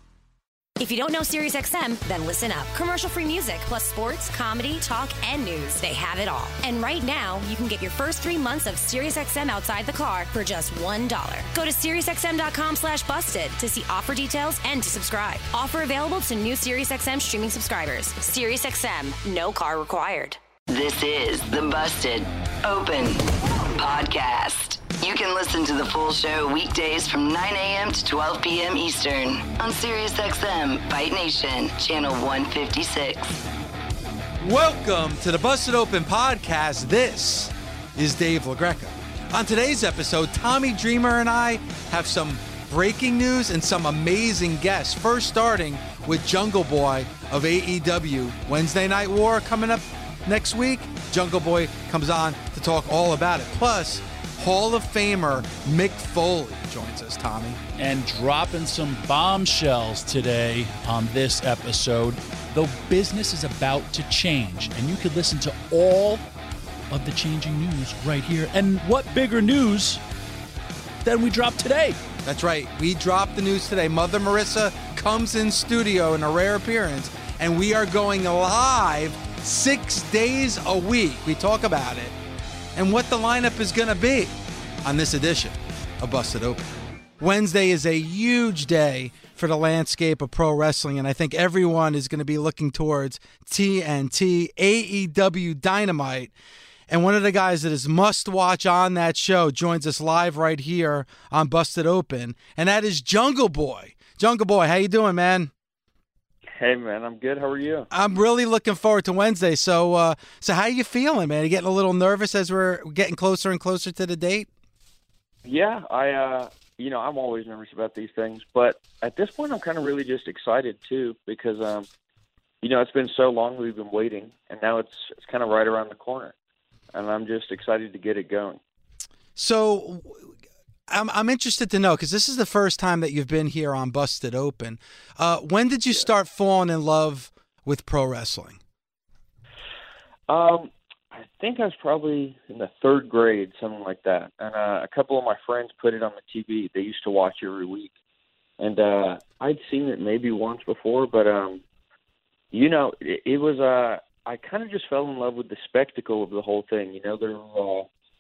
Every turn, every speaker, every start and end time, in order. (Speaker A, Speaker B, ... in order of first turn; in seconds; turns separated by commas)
Speaker A: 0.8-20.4, Speaker B: 20.7-33.4, Speaker C: 34.4-57.6, Speaker D: 57.8-66.2, Speaker D: 66.9-70.0, Speaker D: 71.0-72.0, Speaker C: 72.2-82.1, Speaker C: 82.8-84.3, Speaker C: 84.8-96.3, Speaker C: 96.9-105.5, Speaker E: 106.6-107.9, Speaker C: 107.9-114.5, Speaker E: 115.5-121.9, Speaker E: 122.6-126.3, Speaker E: 126.9-128.6, Speaker C: 129.4-130.3, Speaker C: 130.9-138.6, Speaker E: 140.3-147.9, Speaker E: 148.6-151.6, Speaker E: 152.5-157.9